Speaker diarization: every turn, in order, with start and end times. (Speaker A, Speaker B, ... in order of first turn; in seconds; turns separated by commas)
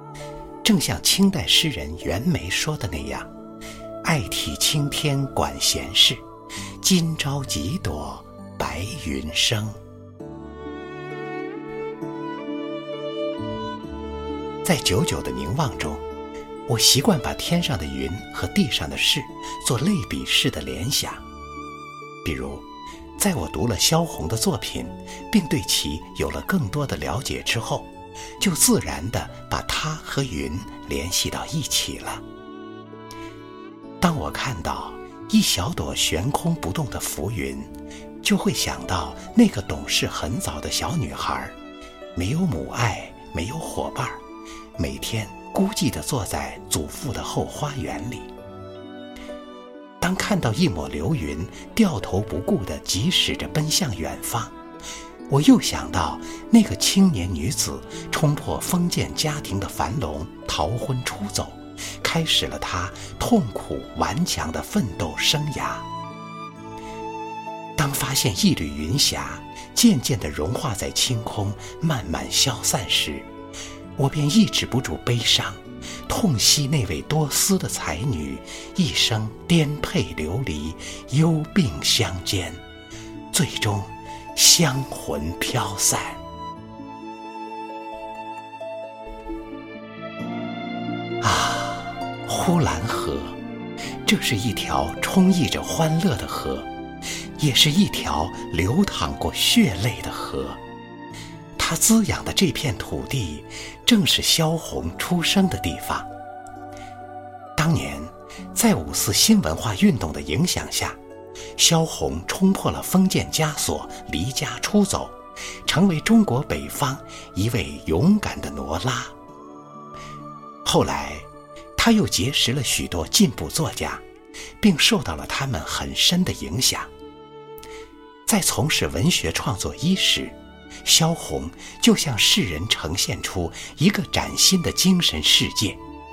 Speaker A: 0.6-3.3, Speaker A: 4.0-6.2, Speaker A: 6.8-9.8, Speaker A: 14.6-16.0, Speaker A: 16.7-21.2, Speaker A: 22.2-22.6, Speaker A: 23.2-32.2, Speaker A: 34.0-37.7, Speaker A: 38.2-41.5, Speaker A: 42.1-44.2, Speaker A: 44.8-48.3, Speaker A: 50.0-54.5, Speaker A: 55.3-65.9, Speaker A: 67.8-73.3, Speaker A: 74.0-82.6, Speaker A: 83.3-86.2, Speaker A: 91.2-93.4, Speaker A: 94.0-96.7, Speaker A: 97.4-100.6, Speaker A: 101.6-106.1, Speaker A: 107.6-111.0, Speaker A: 111.6-119.2, Speaker A: 120.7-124.0, Speaker A: 124.6-126.9, Speaker A: 128.3-135.8